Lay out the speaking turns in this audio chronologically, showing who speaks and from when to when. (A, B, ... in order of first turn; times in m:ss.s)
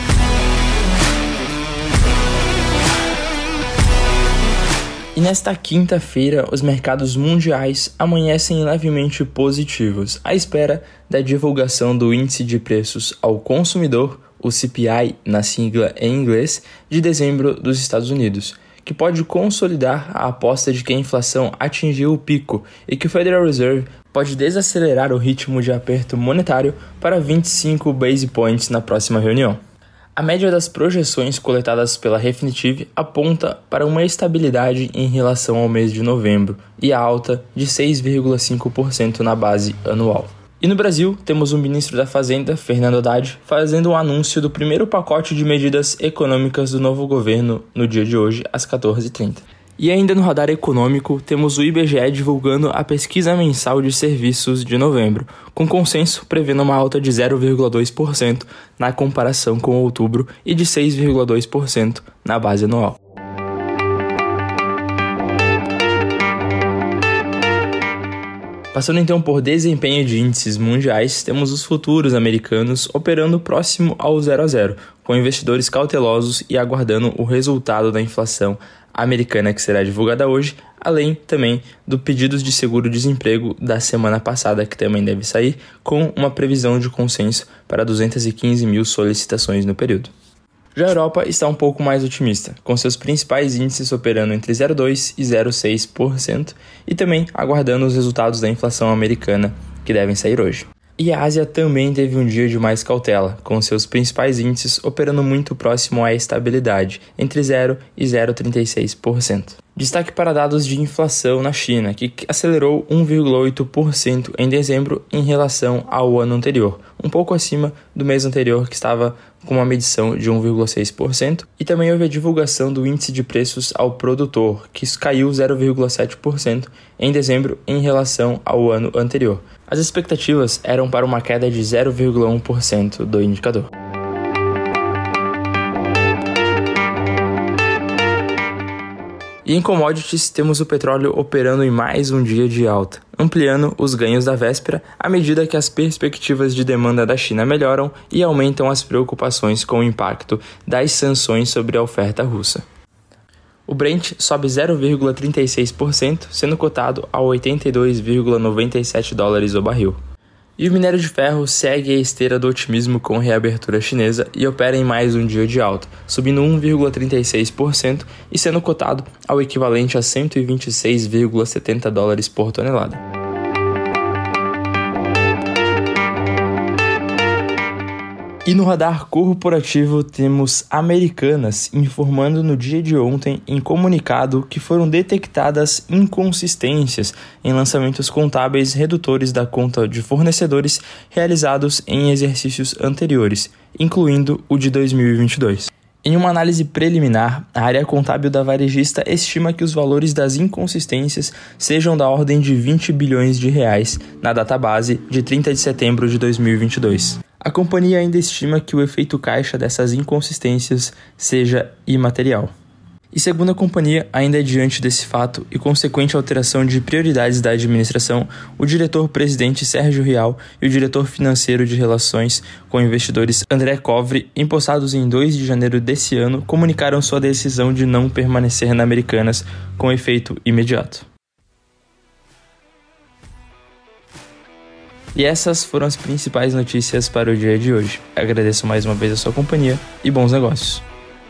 0:05.1-0:29.6 A
0:30.1-1:03.0 A
1:08.7-1:30.1 A
1:30.7-2:13.7 A
2:19.4-2:32.6 A
2:33.7-2:40.0 A
2:40.6-2:53.0 A
2:58.4-3:32.5 A
3:33.1-3:51.1 A
3:55.1-4:00.8 A